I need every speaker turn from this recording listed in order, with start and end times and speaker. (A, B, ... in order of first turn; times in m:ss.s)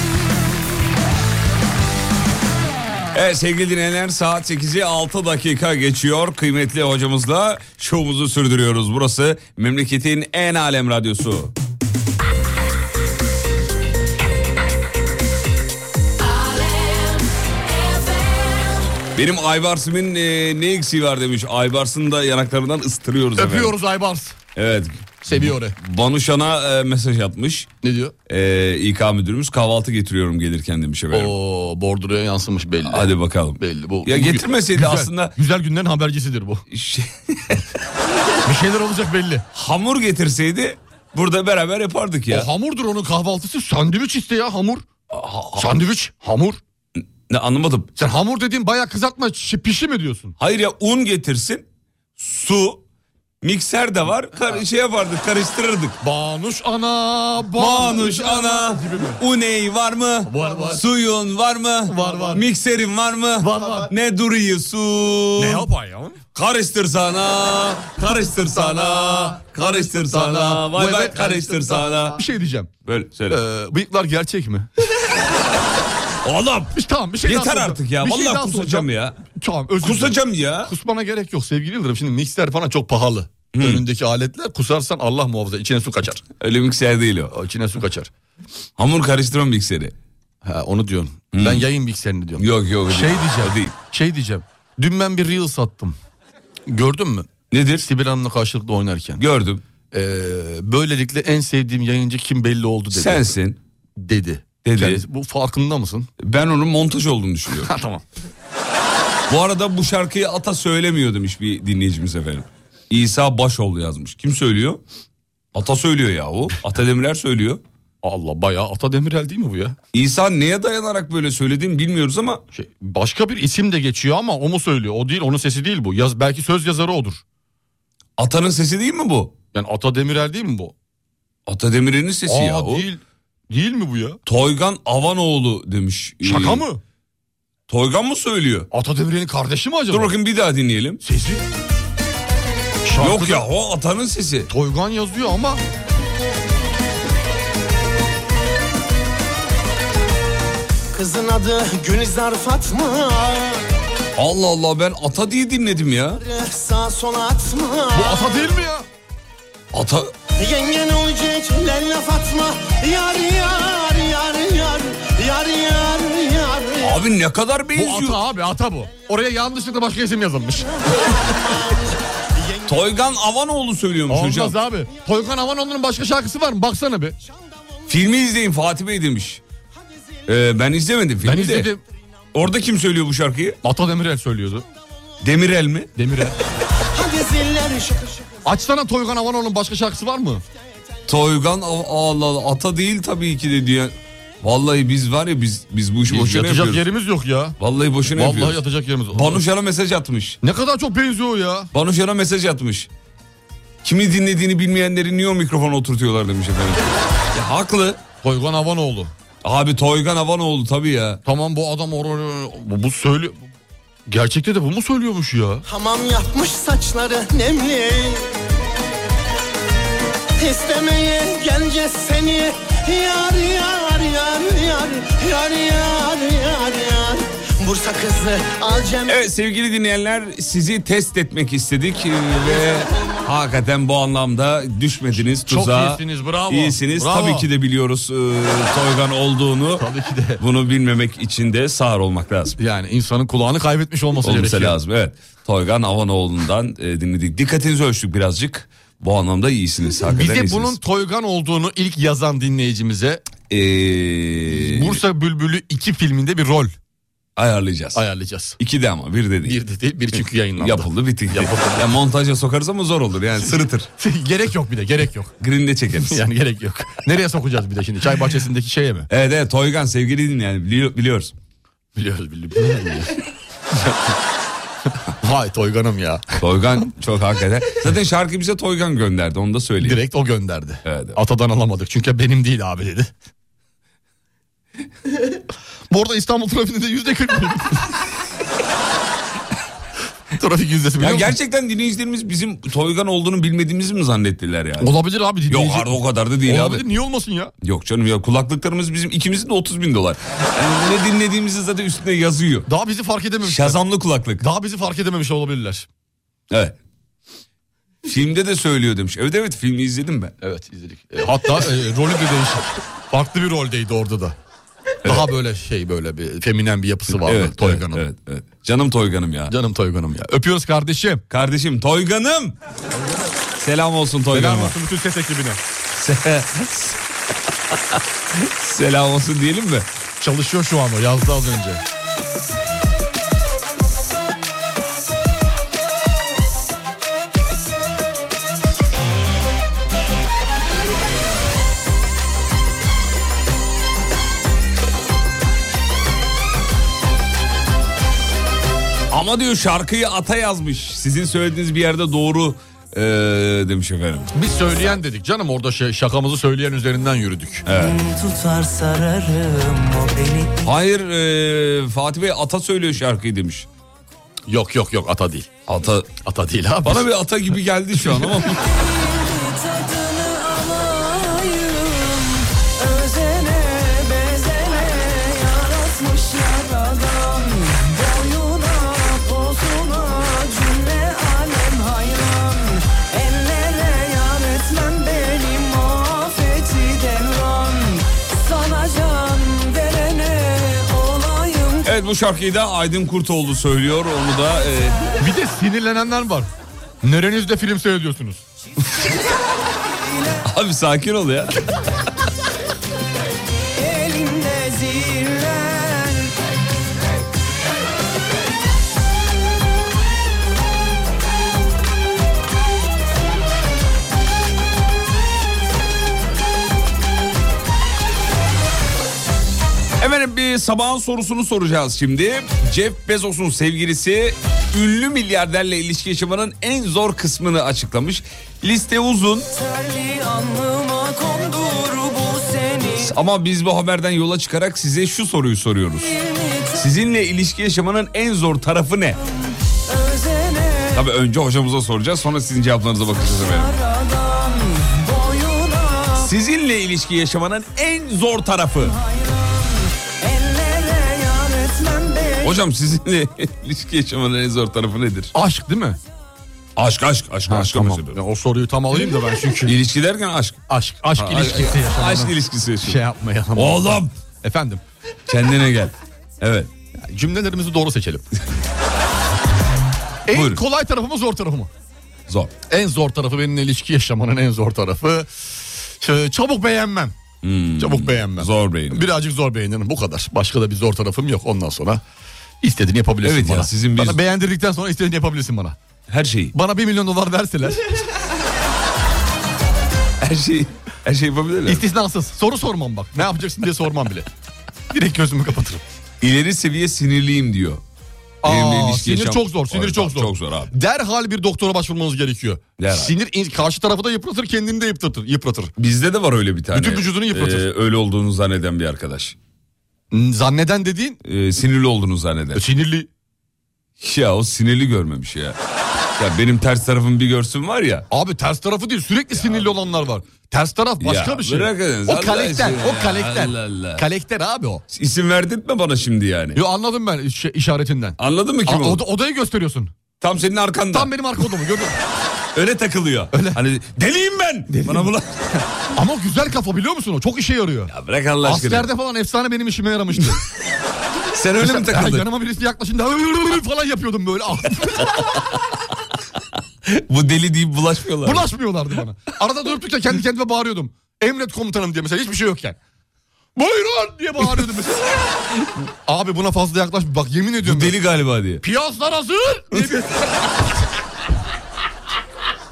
0:03.1-0:11.5 A
0:19.1-0:23.8 A
0:23.4-0:24.4 B
0:24.6-0:27.7 A
0:25.2-0:25.8 B
0:27.8-0:28.2 B
0:28.3-0:31.4 A
0:31.1-0:36.6 B
0:32.8-0:35.3 A
0:36.7-0:37.7 A
0:38.4-0:39.4 B
0:39.5-0:42.5 A
0:42.3-0:44.8 B
0:45.1-0:45.8 A
0:45.6-0:46.6 B
0:47.0-0:47.9 A
0:48.0-0:50.4 B
0:50.4-0:51.6 A
0:52.2-0:52.8 A
0:53.4-0:56.0 A
0:56.0-0:59.2 B
0:57.6-1:05.7 A
1:00.3-1:00.8 B
1:01.9-1:02.4 B
1:03.4-1:03.9 B
1:05.4-1:06.2 B
1:06.4-1:12.2 A
1:08.5-1:12.7 B
1:12.8-1:13.4 A
1:13.3-1:14.7 B
1:16.2-1:19.2 A
1:16.7-1:26.2 B
1:19.8-1:20.7 A
1:23.5-1:23.8 A
1:26.4-1:27.3 A
1:27.3-1:28.1 B
1:28.8-1:29.9 A
1:30.4-1:36.0 B
1:31.3-1:31.7 A
1:32.4-1:33.7 A
1:36.7-1:39.2 B
1:37.5-1:37.8 A
1:39.2-1:39.6 A
1:39.9-1:43.3 B
1:42.9-1:43.6 A
1:44.0-1:46.1 B
1:44.6-1:45.0 A
1:46.2-1:47.7 A
1:47.6-1:48.0 B
1:49.3-1:54.8 A
1:55.5-1:57.6 A
1:58.0-1:59.8 B
1:59.9-2:02.4 A
2:02.5-2:07.2 B
2:08.2-2:09.3 A
2:09.5-2:10.8 B
2:11.5-2:12.9 A
2:12.3-2:14.2 B
2:14.3-2:16.6 A
2:16.2-2:16.8 B
2:17.7-2:18.7 A
2:18.7-2:20.2 B
2:19.9-2:21.0 A
2:21.0-2:21.4 B
2:22.8-2:23.5 B
2:23.0-2:24.5 A
2:24.5-2:25.6 B
2:30.9-2:33.6 C
2:34.2-2:36.2 A
2:36.2-2:38.5 C
2:37.9-2:38.9 B
2:39.7-2:40.1 A
2:40.4-2:47.0 C
2:46.8-2:48.2 A
2:47.8-2:50.8 B
2:50.8-2:52.7 C
2:52.6-2:54.6 A
2:54.1-2:57.2 B
2:57.9-2:59.4 A
3:00.3-3:01.7 A
3:01.2-3:01.8 B
3:02.3-3:03.6 A
3:03.6-3:04.6 B
3:05.2-3:05.9 A
3:06.0-3:06.4 B
3:06.9-3:08.3 C
3:08.4-3:10.4 B
3:11.1-3:16.8 A
3:16.1-3:17.6 B
3:17.6-3:20.4 A
3:18.1-3:19.4 B
3:20.4-3:21.7 B
3:21.7-3:22.9 A
3:23.8-3:28.0 A
3:28.2-3:29.1 B
3:29.4-3:31.2 A
3:31.2-3:33.5 B
3:34.1-3:35.6 B
3:35.7-3:38.3 C
3:40.4-3:49.2 C
3:49.1-3:59.9 A
3:55.3-3:57.5 B
3:59.8-4:00.4 B
4:00.4-4:02.6 A
4:02.6-4:04.8 B
4:04.2-4:10.8 A
4:10.1-4:13.2 B
4:13.5-4:15.0 A
4:14.5-4:16.7 B
4:17.4-4:18.0 A
4:17.9-4:18.6 B
4:18.6-4:19.6 A
4:19.4-4:21.9 B
4:20.6-4:23.9 A
4:24.0-4:25.3 B
4:25.4-4:26.2 A
4:26.0-4:29.1 B
4:29.1-4:31.4 A
4:32.0-4:33.2 B
4:33.7-4:34.2 B
4:35.2-4:36.4 B
4:36.4-4:40.0 A
4:39.8-4:43.1 B
4:40.8-4:41.2 A
4:45.9-4:47.9 B
4:50.4-4:51.4 B
4:51.0-4:55.0 A
4:54.8-4:57.5 B
4:55.5-4:56.8 A
4:57.6-5:02.7 A
5:02.7-5:03.8 B
5:03.4-5:04.4 A
5:04.4-5:05.9 B
5:06.5-5:06.8 A
5:08.0-5:10.3 A
5:10.4-5:14.4 B
5:15.0-5:18.0 B
5:17.1-5:19.5 A
5:19.5-5:21.2 B
5:21.3-5:22.6 A
5:23.6-5:24.8 A
5:24.3-5:25.6 B
5:25.9-5:27.0 A
5:27.7-5:29.9 A
5:30.2-5:31.8 B
5:49.1-5:54.7 A
5:54.3-5:57.6 B
5:57.7-5:58.0 A
5:57.8-6:00.7 D
6:00.6-6:03.7 A
6:04.5-6:05.5 B
6:05.7-6:06.2 A
6:06.2-6:07.1 B
6:06.8-6:08.8 A
6:08.9-6:31.8 E
6:31.8-6:35.1 A
6:35.2-6:36.5 B
6:37.0-6:38.4 B
6:40.4-6:41.6 A
6:43.9-6:46.0 E
7:00.0-7:09.5 A
7:09.6-7:13.0 E
7:12.9-7:16.2 A
7:16.2-7:16.7 E
7:16.7-7:19.2 A
7:19.9-7:21.0 E
7:20.9-7:23.8 A
7:23.6-7:26.2 E
7:26.2-7:29.0 A
7:29.1-7:32.4 E
7:32.4-7:35.3 A
7:35.3-7:36.0 B
7:36.8-7:38.2 A
7:37.5-7:39.8 B
7:39.6-7:43.0 A
7:40.7-7:44.8 B
7:43.6-7:44.1 A
7:45.3-7:46.7 A
7:47.0-7:48.2 B
7:50.3-7:51.7 B
7:50.3-7:50.6 A
7:52.3-7:52.5 A
7:52.7-7:57.2 B
7:57.4-7:59.1 A
7:57.8-8:02.0 B
8:02.6-8:05.8 B
8:03.2-8:04.2 A
8:06.1-8:06.5 A
8:06.5-8:08.0 B
8:10.2-8:11.8 A
8:11.7-8:14.3 B
8:14.9-8:15.8 B
8:16.2-8:17.8 A
8:18.4-8:25.7 B
8:18.4-8:20.7 A
8:22.8-8:23.1 A
8:25.8-8:29.4 A
8:26.7-8:27.7 B
8:30.1-8:31.2 B
8:31.2-8:32.6 A
8:32.5-8:33.1 B
8:34.0-8:35.6 A
8:36.2-8:38.1 A
8:38.1-8:44.8 B
8:39.3-8:39.8 A
8:41.0-8:44.0 A
8:44.9-8:46.6 A
8:46.6-8:49.9 B
8:48.2-8:49.0 A
8:50.2-8:51.1 A
8:50.9-8:52.0 B
8:52.5-8:55.6 A
8:53.3-8:53.6 B
8:54.7-8:55.1 B
8:55.9-8:57.9 B
8:57.9-8:58.9 A
8:58.4-9:00.4 B
9:01.3-9:02.3 A
9:01.6-9:05.2 B
9:06.8-9:08.5 A
9:08.2-9:12.8 B
9:13.6-9:15.3 B
9:16.1-9:18.0 B
9:17.6-9:18.6 A
9:18.6-9:20.3 B